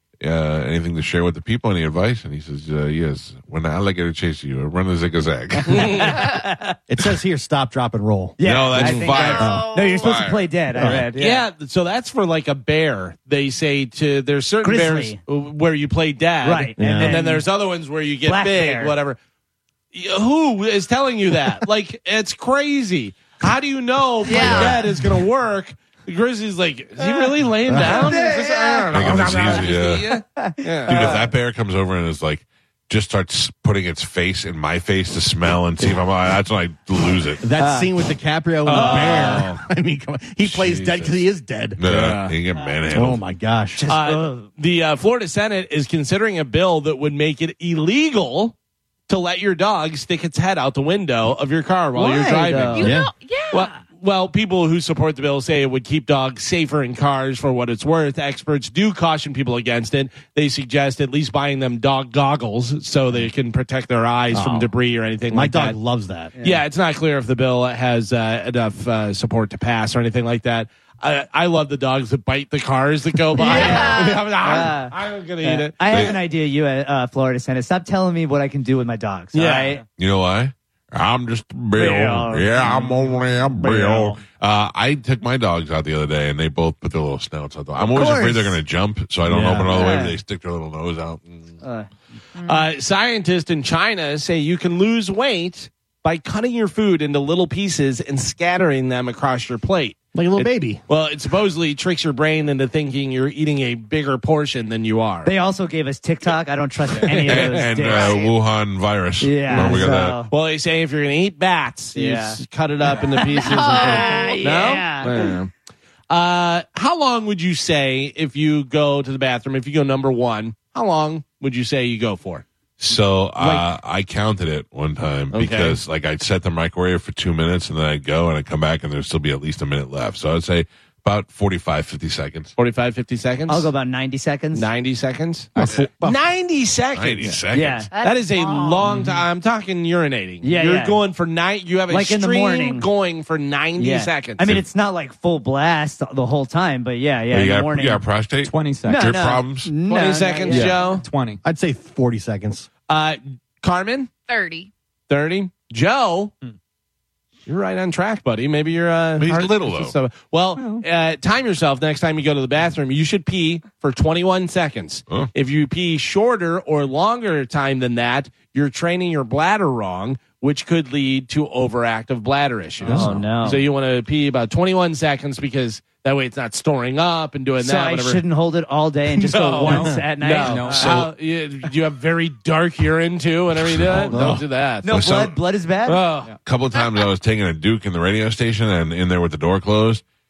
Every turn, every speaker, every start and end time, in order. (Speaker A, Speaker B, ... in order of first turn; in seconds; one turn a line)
Speaker A: 0.2-6.2
Speaker B: 5.7-6.8
Speaker C: 5.7-6.2
Speaker D: 6.9-8.4
Speaker B: 8.4-11.5
Speaker A: 8.4-10.5
Speaker E: 9.1-10.3
Speaker D: 9.2-9.6
Speaker D: 10.7-11.1
Speaker C: 11.2-19.2
Speaker B: 14.6-15.2
Speaker B: 16.4-17.5
Speaker D: 16.8-17.2
Speaker B: 18.3-18.9
Speaker C: 19.9-31.2
Speaker E: 24.2-24.8
Speaker A: 24.4-24.8
Speaker D: 27.7-28.2
Speaker B: 27.8-28.9
Speaker A: 28.9-30.2
Speaker B: 30.4-31.2
Speaker A: 30.9-37.4
Speaker D: 37.4-42.2
Speaker B: 37.6-37.9
Speaker C: 38.6-39.6
Speaker B: 38.7-39.5
Speaker A: 40.4-41.2
Speaker A: 41.8-43.2
Speaker C: 41.9-42.4
Speaker D: 42.9-43.8
Speaker B: 43.8-44.5
Speaker C: 43.9-48.5
Speaker C: 49.1-52.9
Speaker B: 52.0-52.9
Speaker E: 52.8-53.8
Speaker D: 52.8-53.1
Speaker C: 53.5-65.8
Speaker D: 64.3-64.7
Speaker D: 65.3-66.3
Speaker B: 66.4-66.6
Speaker C: 66.4-76.1
Speaker B: 73.4-79.8
Speaker E: 73.4-74.3
Speaker A: 75.9-76.2
Speaker C: 79.3-79.8
Speaker A: 80.0-91.6
Speaker B: 81.8-84.2
Speaker B: 87.9-88.6
Speaker D: 89.3-89.7
Speaker B: 89.6-90.2
Speaker B: 91.6-91.9
Speaker E: 92.4-92.7
Speaker C: 92.5-105.3
Speaker D: 100.1-100.8
Speaker B: 105.2-108.2
Speaker C: 107.0-107.7
Speaker A: 107.3-110.2
Speaker E: 107.8-108.3
Speaker B: 109.2-110.3
Speaker C: 109.6-115.5
Speaker B: 112.0-112.4
Speaker B: 112.9-115.3
Speaker E: 113.0-114.6
Speaker C: 116.1-122.5
Speaker A: 122.8-132.5
Speaker C: 125.3-125.8
Speaker C: 132.6-133.7
Speaker B: 133.5-134.7
Speaker C: 134.5-137.4
Speaker D: 135.6-136.2
Speaker A: 136.9-137.9
Speaker B: 137.5-137.9
Speaker E: 137.9-138.8
Speaker C: 138.0-144.5
Speaker B: 140.4-141.0
Speaker B: 141.9-142.9
Speaker B: 143.8-148.0
Speaker A: 147.3-149.7
Speaker F: 148.4-149.1
Speaker B: 148.9-150.9
Speaker C: 149.9-151.1
Speaker F: 150.5-151.4
Speaker D: 151.4-152.7
Speaker C: 152.9-154.1
Speaker E: 154.3-154.7
Speaker C: 155.1-156.3
Speaker C: 157.5-178.2
Speaker A: 159.2-160.0
Speaker F: 160.6-160.8
Speaker F: 172.8-173.1
Speaker B: 172.9-173.7
Speaker B: 177.6-181.1
Speaker C: 179.2-184.9
Speaker F: 179.6-181.0
Speaker A: 180.8-181.1
Speaker A: 183.5-185.4
Speaker D: 184.1-184.4
Speaker B: 184.8-186.1
Speaker C: 185.9-186.3
Speaker A: 186.4-190.0